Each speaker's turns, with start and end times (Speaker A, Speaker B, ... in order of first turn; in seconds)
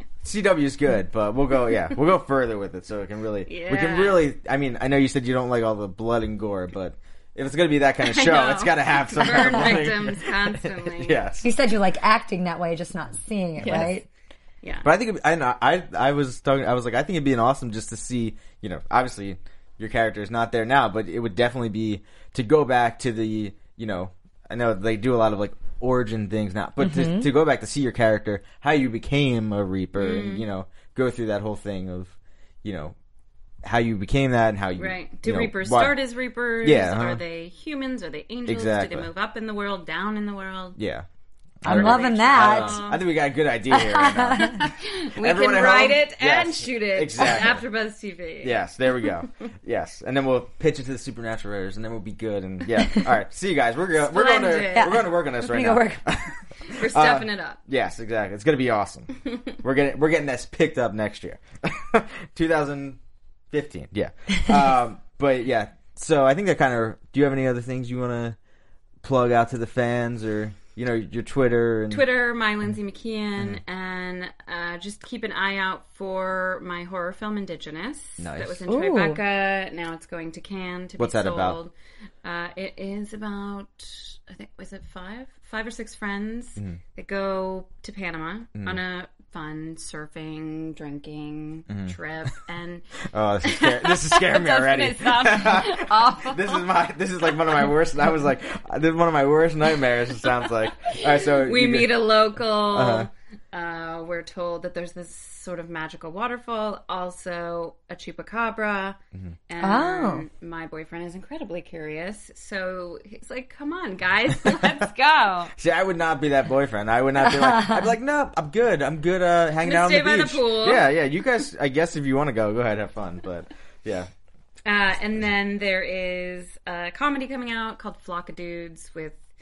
Speaker A: 0.2-11.4, 14.8-33.0, 33.6-36.0, 36.6-37.2, 38.5-39.1, 40.8-41.0, 41.6-47.6, 48.4-63.0, 63.5-68.4, 69.0-72.0, 78.2-78.6, 81.0-81.6, 91.7-91.9, 93.1-103.1, 114.5-114.8, 115.5-124.1
Speaker B: 3.5-4.2, 8.0-11.2, 13.6-13.9, 14.6-14.9, 30.0-30.4, 34.8-40.8, 41.6-43.0, 44.4-48.6, 53.9-55.0, 56.6-57.6, 71.9-96.7, 101.3-109.0, 109.5-115.5, 119.6-120.8, 124.6-129.2
Speaker C: 11.4-14.1, 26.8-27.3, 41.6-42.8, 43.7-44.6, 54.7-56.3, 78.7-79.2, 109.6-110.2, 117.2-117.9